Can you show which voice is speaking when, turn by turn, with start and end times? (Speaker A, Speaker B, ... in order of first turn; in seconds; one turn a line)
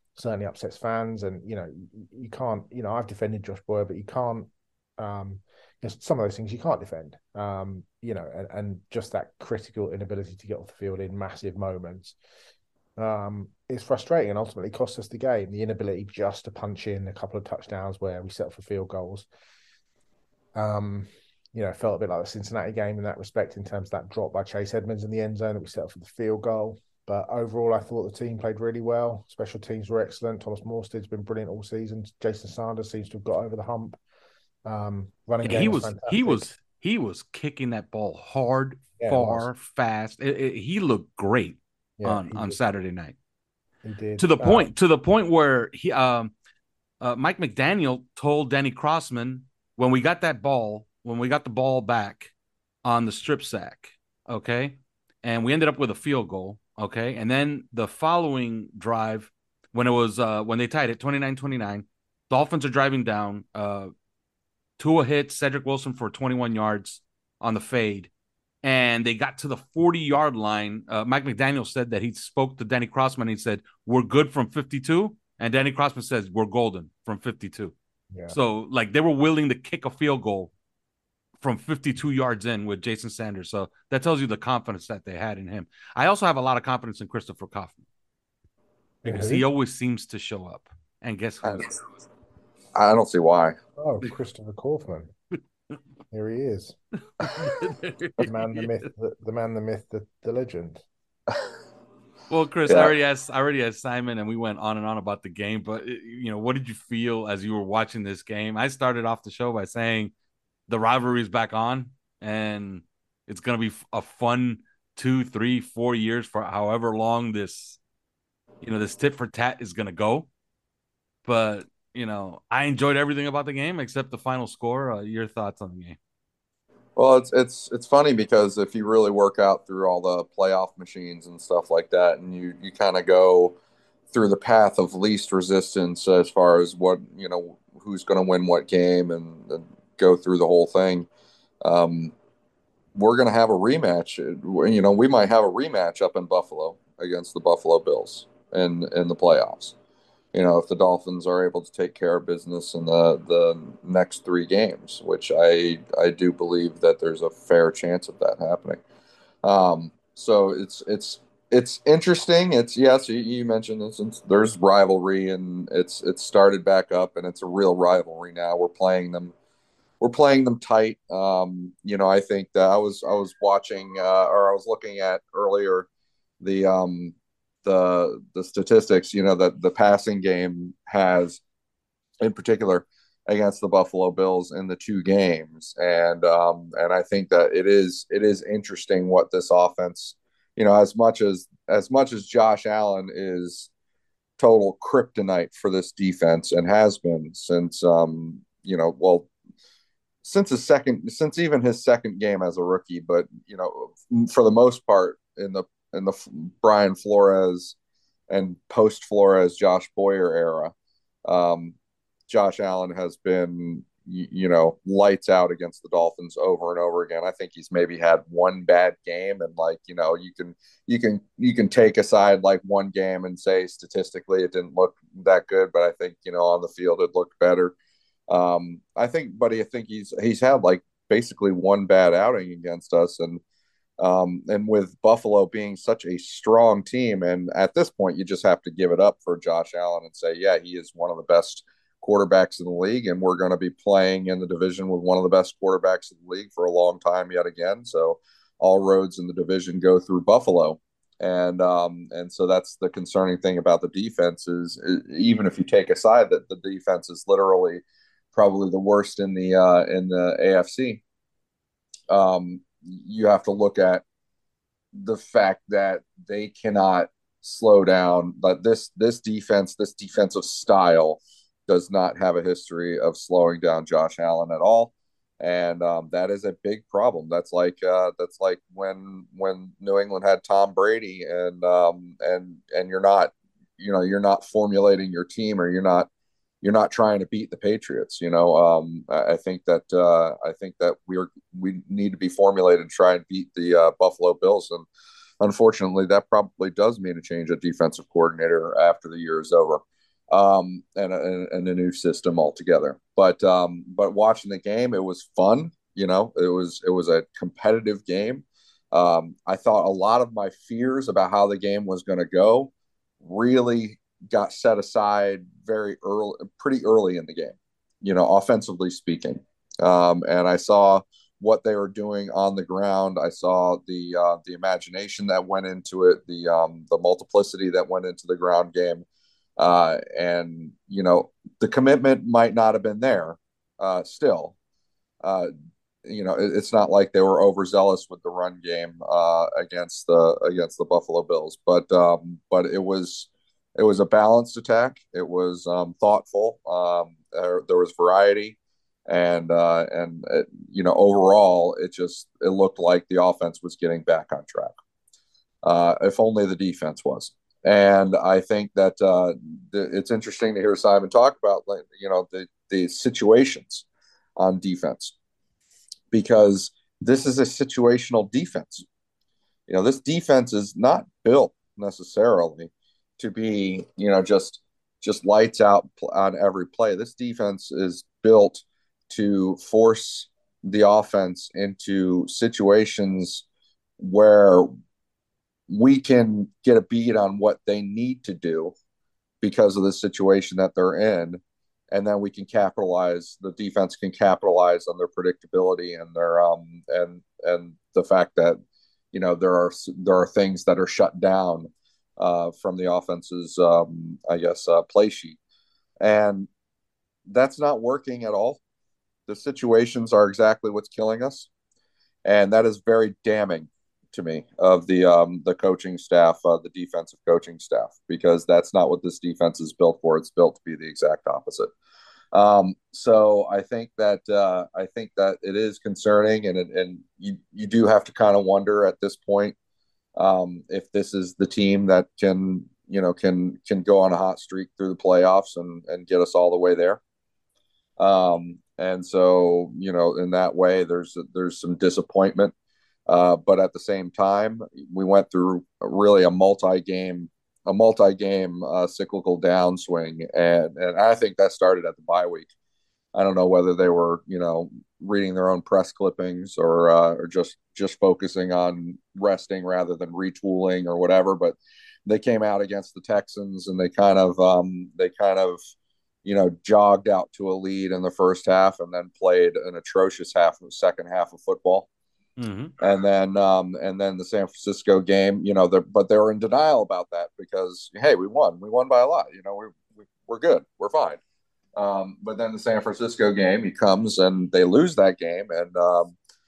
Speaker A: 0.1-12.1
Speaker A: 13.0-19.2
Speaker A: 20.5-34.0
Speaker A: 34.6-36.5
Speaker B: 35.4-43.1
Speaker A: 39.0-39.5
Speaker A: 42.0-42.6
Speaker A: 43.8-44.7
Speaker B: 44.2-46.3
Speaker B: 47.0-52.3
Speaker B: 52.8-63.9
Speaker B: 64.8-68.1
Speaker B: 68.6-77.7
Speaker A: 78.1-78.4
Speaker B: 78.3-80.5
Speaker B: 81.4-87.8
Speaker A: 89.0-89.5
Speaker B: 89.0-91.7
Speaker C: 92.7-93.6
Speaker A: 93.8-95.1
Speaker A: 96.1-97.6
Speaker B: 97.2-98.8
Speaker A: 98.2-100.8
Speaker B: 102.3-110.1
Speaker C: 102.7-102.9
Speaker B: 110.7-117.8
Speaker B: 118.6-120.3
Speaker B: 121.2-126.0
Speaker C: 127.0-133.6
Speaker C: 134.1-141.1
Speaker C: 141.6-142.1
Speaker C: 142.9-149.7
Speaker C: 150.3-158.8
Speaker C: 159.4-169.3
Speaker C: 170.0-175.9
Speaker C: 176.4-177.1
Speaker C: 177.6-181.4
Speaker C: 182.2-193.7
Speaker C: 194.4-199.3
Speaker C: 200.2-207.8
Speaker C: 208.3-210.7
Speaker C: 211.2-211.7
Speaker C: 212.3-227.7
Speaker C: 228.3-233.4
Speaker C: 234.0-257.8
Speaker C: 258.3-261.0
Speaker C: 262.1-264.0
Speaker C: 264.9-286.1
Speaker C: 286.6-294.8
Speaker C: 295.4-329.0
Speaker C: 329.6-334.5
Speaker C: 335.2-335.5
Speaker C: 336.0-354.7
Speaker C: 355.6-363.8
Speaker C: 364.4-365.1
Speaker C: 366.1-368.8
Speaker C: 369.7-383.4
Speaker C: 384.0-384.7
Speaker C: 385.7-388.7
Speaker C: 389.4-391.4
Speaker C: 391.9-398.6
Speaker C: 399.1-405.4
Speaker C: 406.0-406.5
Speaker C: 407.3-408.6
Speaker C: 409.3-411.5
Speaker C: 412.2-421.7
Speaker C: 422.3-429.6
Speaker C: 430.1-437.0
Speaker C: 438.0-442.5
Speaker C: 443.1-452.5
Speaker C: 453.1-465.6
Speaker C: 466.2-471.9
Speaker B: 472.4-472.7
Speaker C: 472.8-481.2
Speaker C: 481.8-486.1